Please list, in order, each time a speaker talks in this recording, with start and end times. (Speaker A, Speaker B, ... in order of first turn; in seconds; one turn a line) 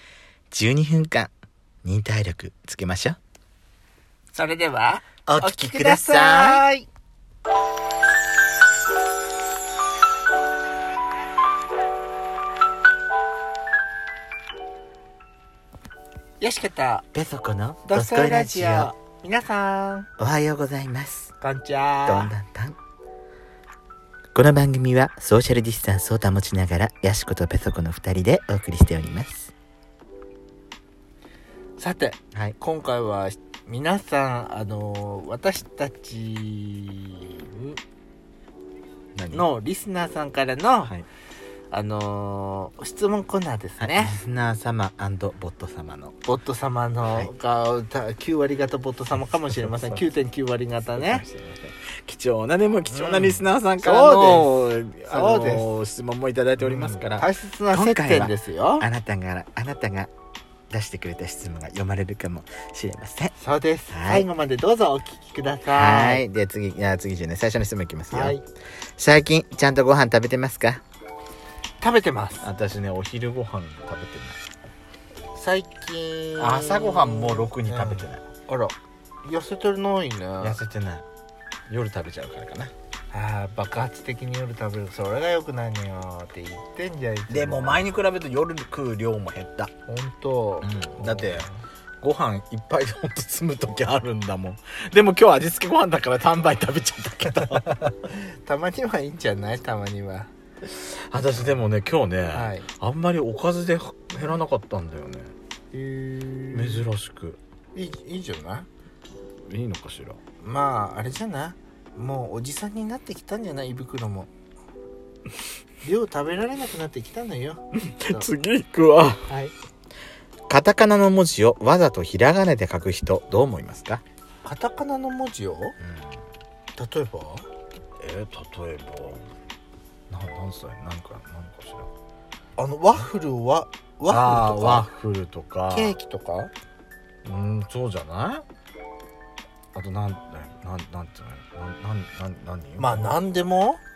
Speaker A: 0.5-1.3
Speaker A: 1.8-3.2
Speaker B: 4.3-6.9
Speaker A: 5.3-6.6
Speaker B: 16.4-17.1
Speaker A: 17.1-18.9
Speaker B: 17.9-20.1
Speaker A: 20.2-21.3
Speaker B: 21.4-22.4
Speaker A: 22.1-22.8
Speaker A: 24.4-29.5
Speaker B: 31.8-37.8
Speaker A: 39.1-39.5
Speaker B: 39.3-40.9
Speaker B: 41.7-44.2
Speaker A: 43.8-46.1
Speaker B: 46.3-51.2
Speaker A: 51.0-60.1
Speaker B: 52.9-55.7
Speaker B: 56.6-58.9
Speaker A: 60.7-63.3
Speaker B: 63.4-66.2
Speaker A: 63.9-64.3
Speaker A: 65.8-68.4
Speaker B: 68.1-68.4
Speaker A: 69.0-70.8
Speaker B: 71.8-72.5
Speaker A: 72.4-74.4
Speaker B: 75.3-80.6
Speaker A: 76.4-78.2
Speaker A: 80.4-81.0
Speaker A: 81.7-82.7
Speaker B: 83.1-87.9
Speaker A: 87.3-89.7
Speaker B: 89.9-91.5
Speaker A: 90.6-91.5
Speaker A: 92.0-97.9
Speaker B: 97.7-100.3
Speaker A: 100.7-105.3
Speaker B: 102.3-102.7
Speaker B: 105.7-106.9
Speaker A: 106.5-107.4
Speaker B: 107.7-108.7
Speaker A: 109.5-110.2
Speaker B: 110.4-114.3
Speaker B: 115.8-118.3
Speaker A: 117.8-119.3
Speaker B: 119.3-119.5
Speaker A: 120.5-124.0
Speaker B: 124.4-125.8
Speaker A: 125.8-126.1
Speaker B: 126.8-127.5
Speaker A: 128.0-129.3
Speaker A: 130.1-131.9
Speaker B: 132.6-134.9
Speaker A: 134.1-136.0
Speaker B: 135.7-136.5
Speaker A: 137.2-138.4
Speaker A: 139.7-143.0
Speaker B: 142.8-143.8